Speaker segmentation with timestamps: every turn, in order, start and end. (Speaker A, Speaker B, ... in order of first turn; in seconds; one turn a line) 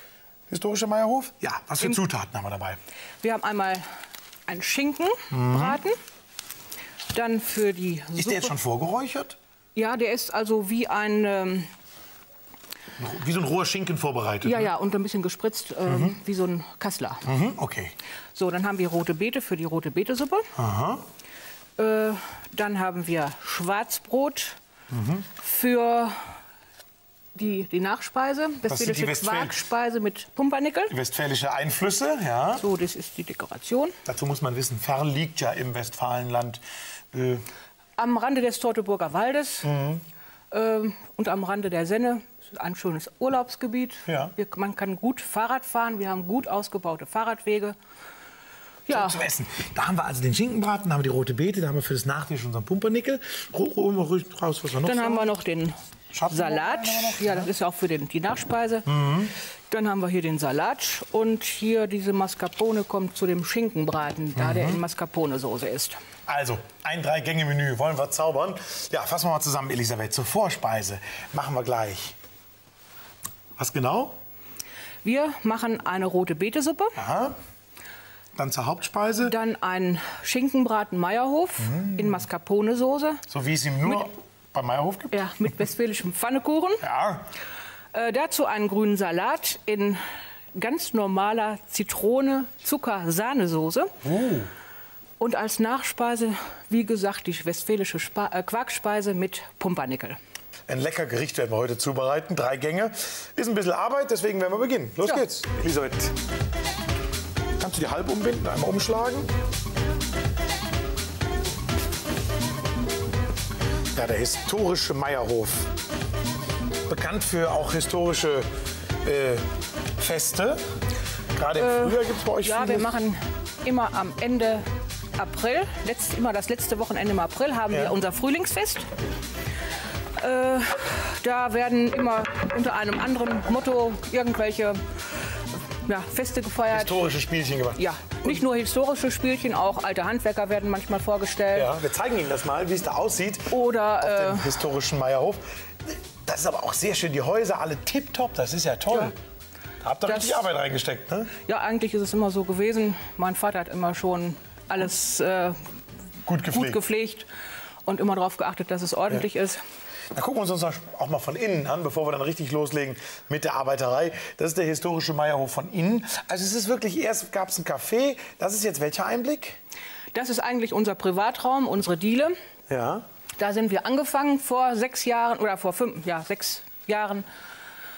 Speaker A: 0.5-2.8
Speaker B: 3.2-3.9
Speaker B: 4.5-6.0
Speaker A: 5.3-5.8
Speaker B: 7.1-8.5
Speaker A: 8.2-9.4
Speaker B: 9.8-11.7
Speaker A: 13.0-14.7
Speaker B: 14.4-17.2
Speaker A: 15.9-16.1
Speaker A: 17.2-17.9
Speaker B: 18.3-20.5
Speaker A: 20.5-21.0
Speaker B: 21.8-24.6
Speaker A: 24.9-25.3
Speaker B: 25.4-26.3
Speaker B: 27.3-30.9
Speaker A: 28.7-29.6
Speaker A: 30.9-32.6
Speaker B: 32.6-34.0
Speaker A: 34.0-36.6
Speaker A: 37.1-37.4
Speaker B: 38.0-39.7
Speaker A: 39.6-40.0
Speaker B: 40.5-47.8
Speaker A: 44.0-44.3
Speaker A: 48.9-55.3
Speaker B: 48.9-49.2
Speaker B: 54.8-55.8
Speaker A: 56.1-57.5
Speaker B: 56.3-58.9
Speaker A: 58.9-59.3
Speaker B: 59.7-66.0
Speaker A: 64.3-64.8
Speaker A: 66.3-72.2
Speaker A: 73.6-74.2
Speaker B: 75.0-77.0
Speaker A: 77.0-77.4
Speaker A: 78.3-79.3
Speaker B: 79.2-83.2
Speaker A: 81.6-82.2
Speaker A: 83.3-85.2
Speaker B: 85.1-86.8
Speaker A: 86.8-87.3
Speaker B: 87.9-93.9
Speaker A: 94.0-94.5
Speaker B: 95.2-100.2
Speaker A: 100.7-106.1
Speaker A: 107.6-109.3
Speaker A: 113.9-115.7
Speaker A: 116.9-118.5
Speaker A: 119.0-120.6
Speaker A: 121.3-123.0
Speaker B: 121.5-128.9
Speaker A: 127.7-128.0
Speaker B: 130.2-135.3
Speaker B: 135.8-137.0
Speaker A: 136.7-138.4
Speaker B: 137.8-141.7
Speaker A: 141.5-149.1
Speaker B: 143.5-144.6
Speaker A: 149.8-151.3
Speaker B: 150.1-150.4
Speaker B: 151.4-155.6
Speaker A: 156.2-156.8
Speaker B: 156.5-157.3
Speaker B: 157.8-159.6
Speaker A: 160.1-169.6
Speaker B: 170.1-172.3
Speaker A: 172.7-173.1
Speaker B: 173.4-177.3